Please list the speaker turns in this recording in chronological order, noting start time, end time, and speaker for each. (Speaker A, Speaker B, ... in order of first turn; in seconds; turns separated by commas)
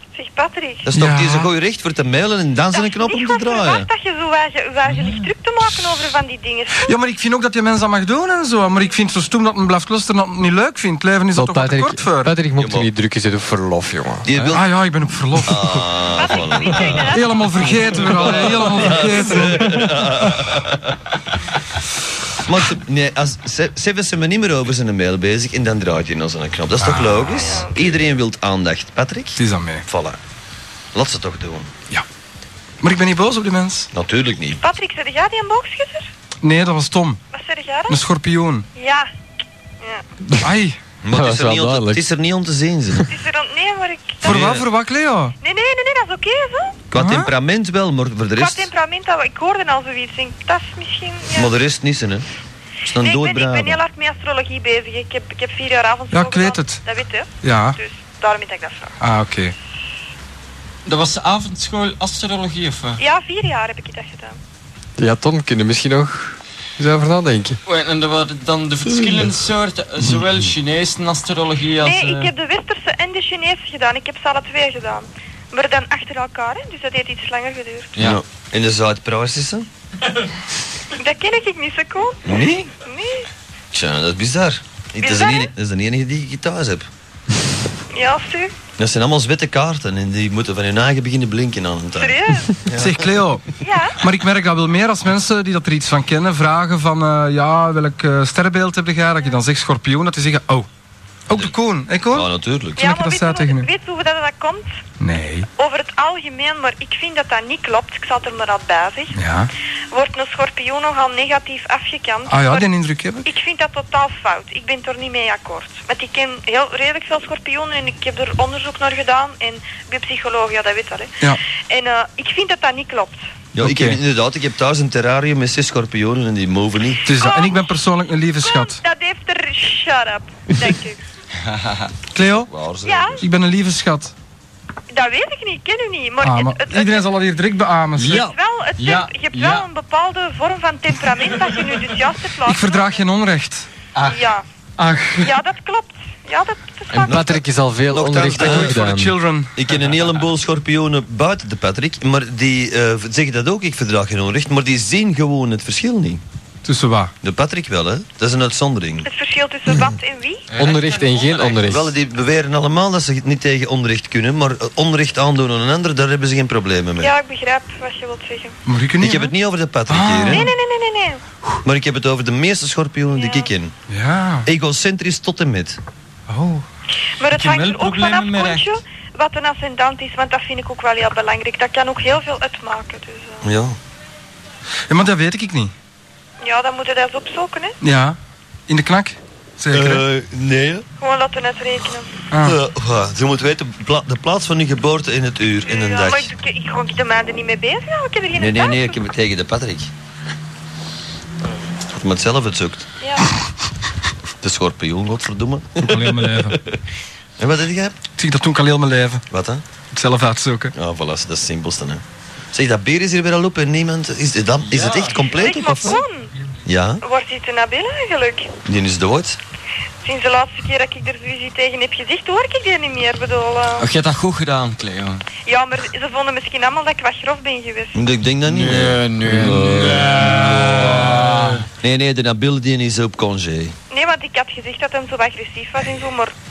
Speaker A: 0.1-0.9, Speaker B: 0.8-3.9, Speaker C: 0.9-1.5, Speaker A: 2.7-7.0, Speaker D: 4.9-5.2, Speaker C: 6.8-12.3, Speaker E: 11.3-14.5, Speaker B: 12.6-12.9, Speaker B: 14.2-14.6, Speaker C: 14.5-15.8, Speaker B: 15.4-17.2, Speaker A: 16.1-18.3, Speaker C: 17.1-20.5, Speaker B: 18.1-21.0, Speaker B: 22.4-30.2, Speaker C: 26.8-27.6, Speaker A: 27.5-27.7, Speaker C: 29.4-29.9, Speaker B: 30.9-31.7, Speaker C: 32.8-33.9, Speaker B: 33.9-34.6, Speaker A: 34.6-36.1, Speaker C: 36.4-37.2, Speaker A: 37.3-38.0, Speaker C: 37.9-38.6, Speaker A: 38.8-39.1, Speaker C: 40.4-40.8, Speaker B: 41.0-43.1, Speaker E: 41.1-42.0, Speaker A: 43.1-44.4, Speaker C: 44.2-45.3, Speaker B: 44.2-44.7, Speaker A: 45.4-46.8, Speaker B: 46.9-48.7, Speaker C: 46.9-47.3, Speaker A: 48.4-51.5, Speaker B: 51.3-52.2, Speaker B: 52.8-53.8, Speaker A: 53.0-59.0, Speaker C: 56.1-56.8, Speaker C: 57.4-57.8, Speaker C: 59.0-59.5, Speaker D: 60.9-63.0, Speaker A: 63.0-64.3, Speaker E: 65.0-67.6, Speaker D: 67.7-72.3, Speaker A: 71.8-77.9, Speaker B: 78.0-79.7, Speaker A: 81.0-82.3, Speaker B: 82.2-82.7, Speaker A: 82.8-83.3, Speaker B: 83.7-86.9, Speaker A: 85.0-85.5, Speaker A: 87.9-88.5, Speaker B: 88.8-93.2, Speaker A: 92.0-92.6, Speaker C: 92.7-93.4, Speaker A: 93.6-94.0, Speaker C: 94.0-100.7, Speaker C: 101.3-103.7, Speaker B: 102.1-102.8, Speaker A: 102.8-104.8, Speaker C: 105.0-105.5, Speaker A: 105.6-109.2, Speaker C: 109.1-109.5, Speaker A: 109.9-112.7, Speaker C: 112.3-113.2, Speaker A: 113.2-123.3, Speaker B: 123.5-127.0, Speaker C: 123.6-124.0, Speaker C: 127.0-128.8, Speaker A: 127.1-127.6, Speaker A: 128.4-131.0, Speaker D: 131.4-131.9, Speaker C: 132.1-132.5, Speaker B: 132.4-133.2, Speaker A: 132.8-133.2, Speaker C: 133.2-134.1, Speaker A: 134.9-137.1, Speaker C: 136.2-138.3, Speaker D: 138.0-139.7, Speaker A: 138.0-143.0, Speaker C: 142.4-143.7, Speaker D: 143.9-144.3, Speaker A: 144.0-144.4, Speaker C: 144.8-145.3, Speaker A: 145.2-147.2, Speaker E: 146.9-149.2, Speaker B: 147.1-148.9, Speaker C: 148.3-149.5, Speaker B: 149.6-156.2, Speaker D: 149.7-150.2, Speaker C: 156.6-157.1, Speaker B: 157.2-159.1, Speaker A: 159.0-160.4, Speaker D: 160.5-161.8, Speaker E: 160.6-161.9, Speaker B: 161.7-167.1, Speaker A: 167.0-168.6, Speaker C: 168.7-169.3, Speaker B: 169.0-170.5, Speaker C: 169.9-170.5, Speaker A: 170.3-171.2, Speaker B: 171.6-173.7, Speaker A: 173.1-173.5, Speaker C: 173.9-174.5, Speaker B: 174.4-175.8, Speaker C: 176.3-176.6, Speaker A: 177.2-183.4, Speaker D: 177.3-178.7, Speaker B: 183.4-183.8, Speaker C: 184.9-185.7, Speaker A: 186.4-187.8, Speaker C: 187.8-188.2, Speaker C: 188.7-190.0, Speaker B: 189.7-190.8, Speaker A: 191.0-192.1, Speaker C: 192.3-192.6, Speaker B: 192.4-196.3, Speaker A: 195.7-199.0, Speaker B: 198.4-199.9, Speaker B: 201.9-202.9, Speaker A: 203.0-203.3, Speaker B: 204.4-206.8, Speaker C: 205.8-206.6, Speaker B: 207.4-208.0, Speaker C: 208.2-209.2, Speaker B: 209.3-209.6, Speaker C: 209.9-210.7, Speaker B: 210.8-216.0, Speaker D: 214.6-215.5, Speaker A: 215.3-216.3, Speaker B: 216.6-217.0, Speaker A: 217.0-218.6, Speaker B: 218.6-219.4, Speaker A: 220.0-223.9, Speaker D: 223.8-225.2, Speaker A: 225.4-228.0, Speaker B: 227.9-231.1, Speaker D: 228.4-231.6, Speaker E: 229.3-230.1, Speaker C: 230.5-230.9, Speaker B: 231.8-233.8, Speaker A: 233.9-236.3